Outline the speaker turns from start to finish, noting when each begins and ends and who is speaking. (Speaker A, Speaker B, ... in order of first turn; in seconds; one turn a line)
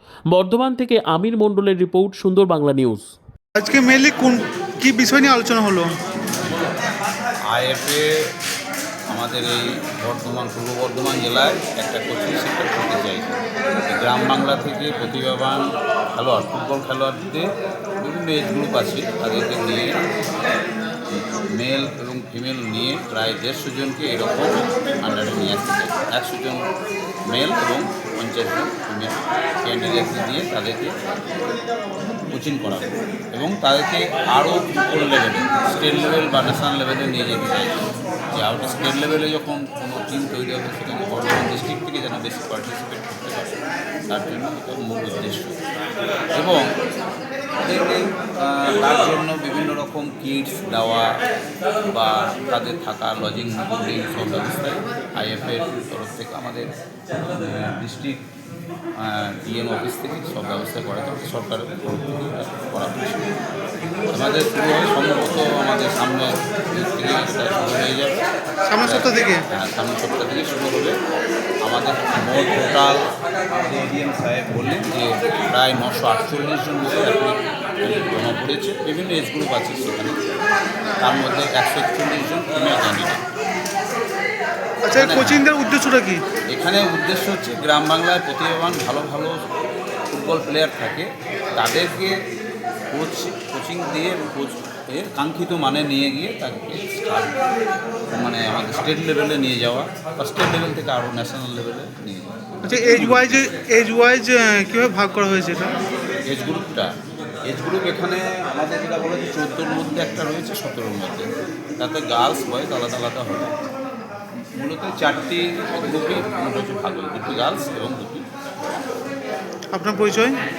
Speaker A: 0.3-3.1
Speaker B: 3.6-5.9
Speaker C: 7.5-8.1
Speaker C: 9.1-13.3
Speaker C: 13.9-15.6
Speaker C: 16.1-17.5
Speaker C: 18.0-20.0
Speaker C: 21.6-26.6
Speaker C: 27.3-30.9
Speaker C: 32.3-37.8
Speaker C: 38.4-43.6
Speaker C: 44.1-45.6
Speaker C: 46.4-46.6
Speaker C: 47.6-51.1
Speaker C: 51.9-56.7
Speaker C: 57.3-58.2
Speaker C: 59.0-63.2
Speaker C: 64.1-68.3
Speaker B: 68.7-69.5
Speaker C: 68.8-71.0
Speaker C: 71.6-73.0
Speaker C: 73.5-80.2
Speaker C: 81.0-83.2
Speaker B: 84.9-86.2
Speaker C: 84.9-85.4
Speaker C: 86.5-89.4
Speaker C: 90.1-92.2
Speaker C: 92.9-97.3
Speaker C: 98.1-103.5
Speaker B: 102.7-105.8
Speaker C: 106.3-106.9
Speaker C: 107.5-113.5
Speaker C: 114.6-118.2
Speaker B: 119.7-120.4